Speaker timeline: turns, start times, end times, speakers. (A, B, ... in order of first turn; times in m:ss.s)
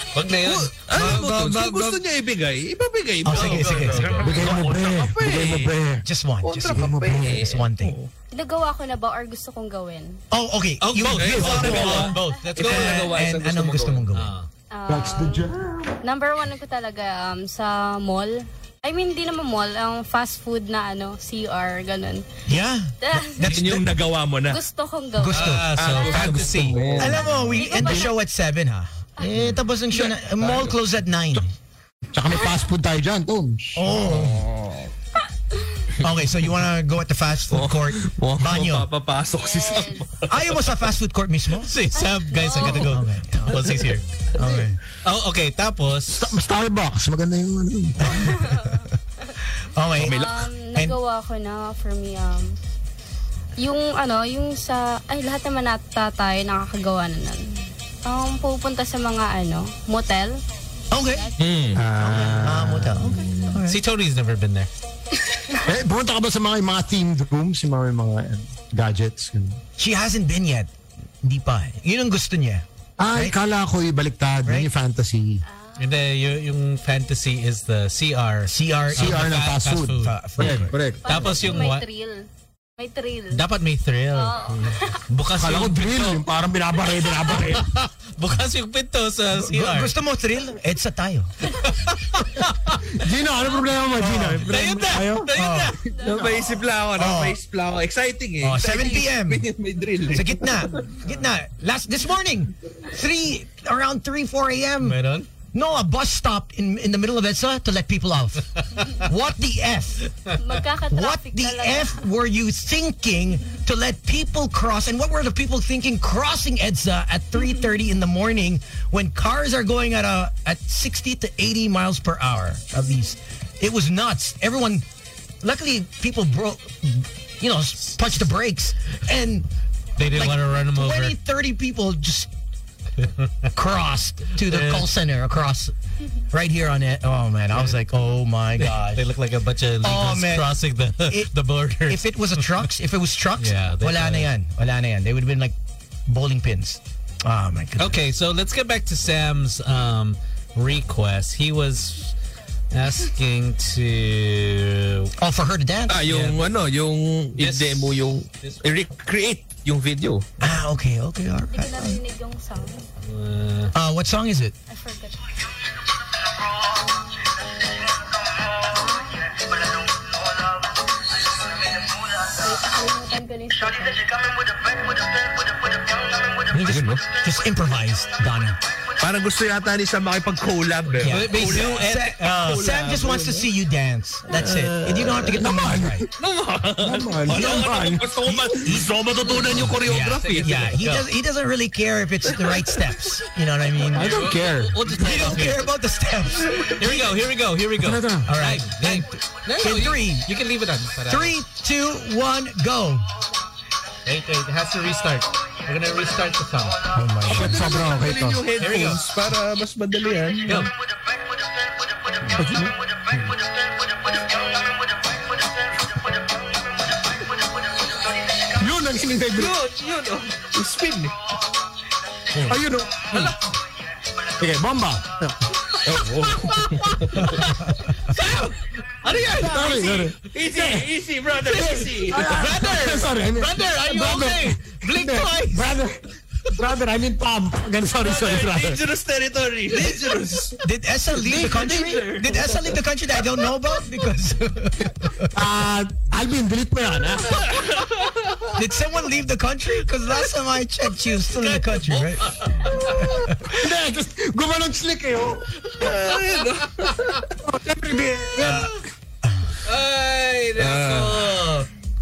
0:00.1-0:01.0 A
0:00.4-0:05.7 B
0:00.9-0:02.0 C
0:03.2-0:04.3 C
0:03.3-0:04.4 A
0:04.2-0:06.0 D
0:06.0-0:08.0 C
0:06.4-0:08.1 B
0:06.7-0:07.4 D
0:08.3-0:10.2 E
0:10.3-0:14.4 C
0:10.8-0:13.1 A
0:11.1-0:14.0 B
0:11.2-0:12.1 D
0:14.1-0:14.5 A
0:14.7-0:15.5 E
0:14.9-0:16.0 D
0:16.0-0:22.2 E
0:22.4-0:23.9 C
0:23.0-0:23.5 E
0:23.4-0:24.6 B
0:24.5-0:25.5 E
0:25.2-0:25.7 C
0:25.3-0:27.0 A
0:25.7-0:27.3 B
0:26.7-0:27.8 D
0:27.0-0:31.5 C
0:27.5-0:28.2 E
0:29.9-0:30.7 B
0:32.1-0:33.8 D
0:32.3-0:32.7 E
0:33.7-0:34.4 C
0:34.0-0:34.9 B
0:35.5-0:35.9 E
0:36.0-0:38.9 C
0:37.5-0:40.5 B
0:39.3-0:40.1 E
0:40.2-0:41.8 C
0:41.6-0:44.0 A
0:41.9-0:43.0 E
0:42.6-0:43.8 C
0:44.3-0:44.8 C
0:45.0-0:46.4 A
0:46.1-0:48.3 D
0:48.0-0:48.8 C
0:48.2-0:49.3 E
0:49.6-0:50.2 C
0:50.0-0:50.5 B
0:50.1-0:52.6 E
0:53.6-1:00.4 E
1:00.9-1:01.3 C
1:01.0-1:01.4 E
1:01.4-1:02.3 B
1:01.7-1:03.1 D
1:01.9-1:03.8 C
1:02.9-1:03.5 B
1:03.6-1:04.7 A
1:05.6-1:09.6 D
1:09.8-1:10.7 C
1:11.2-1:13.4 C
1:13.0-1:15.4 D
1:14.4-1:14.7 C
1:15.4-1:16.0 E
1:15.8-1:21.9 A
1:18.5-1:19.3 C
1:18.9-1:21.3 D
1:20.0-1:20.8 C
1:21.0-1:23.4 E
1:23.3-1:24.4 A
1:24.1-1:25.0 E
1:25.1-1:26.2 A
1:25.3-1:27.7 D
1:27.2-1:29.9 A
1:29.3-1:31.3 C
1:31.6-1:32.8 A
1:32.8-1:35.3 D
1:34.0-1:34.5 C
1:34.4-1:35.8 A
1:35.3-1:35.8 C
1:35.8-1:36.3 E
1:36.0-1:36.5 D
1:36.0-1:41.0 B
1:36.9-1:37.4 C
1:38.4-1:39.5 C
1:40.1-1:45.0 C
1:44.8-1:45.3 A
1:45.5-1:50.1 C
1:50.4-1:52.0 E
1:50.9-2:04.8 C
2:05.4-2:09.5 C
2:10.0-2:11.2 A
2:10.0-2:12.3 C
2:13.0-2:13.5 A
2:13.5-2:15.7 C
2:14.4-2:14.9 A
2:16.3-2:19.1 C
2:18.6-2:22.6 A
2:19.8-2:25.6 C
2:23.4-2:24.3 A
2:26.1-2:28.0 C
2:27.8-2:32.2 A
2:32.7-2:35.1 A
2:35.2-2:36.0 C
2:35.9-2:40.2 B
2:36.0-2:36.5 A
2:37.4-2:38.6 A
2:40.4-2:42.0 C
2:41.5-2:42.9 E
2:43.0-2:43.7 A
2:43.7-2:44.5 C
2:44.7-2:45.3 E
2:48.7-2:49.4 E
2:52.2-2:54.2 E
2:56.5-2:58.6 C
2:56.6-2:57.0 B
2:59.0-3:01.9 B
3:01.0-3:06.0 C
3:01.0-3:02.9 A
3:02.5-3:03.4 B
3:04.3-3:05.6 B
3:05.4-3:06.1 D
3:06.1-3:10.7 B
3:06.8-3:08.0 D
3:07.3-3:08.9 C
3:09.4-3:14.3 C
3:09.9-3:11.1 A
3:13.9-3:14.8 D
3:13.9-3:15.7 A
3:14.9-3:17.2 C
3:16.6-3:21.4 A
3:17.8-3:18.3 D
3:18.2-3:20.3 C
3:21.0-3:23.1 C
3:24.0-3:26.8 A
3:26.9-3:27.7 C
3:27.2-3:28.4 D
3:27.2-3:30.7 B
3:28.6-3:29.0 A
3:32.3-3:33.3 D
3:38.5-3:39.5 D
3:39.3-3:41.2 B
3:42.4-3:43.3 D
3:44.4-3:45.4 D
3:45.8-3:47.4 B
3:46.3-3:50.1 A
3:49.3-3:50.9 D
3:50.1-3:52.3 B
3:51.5-3:56.0 D
3:51.5-3:55.8 A
3:56.5-3:58.8 D
3:58.0-4:00.6 B
4:00.6-4:05.3 C
4:01.1-4:02.6 B
4:05.3-4:07.6 D
4:07.4-4:08.4 B
4:08.5-4:13.6 C
4:11.3-4:13.1 A
4:13.5-4:15.5 D
4:15.6-4:16.2 A
4:15.8-4:17.2 B
4:16.8-4:17.1 A
4:17.4-4:18.7 D
4:18.4-4:18.7 C
4:18.4-4:18.7 A
4:19.2-4:19.5 C
4:19.6-4:21.7 A
4:20.6-4:21.3 B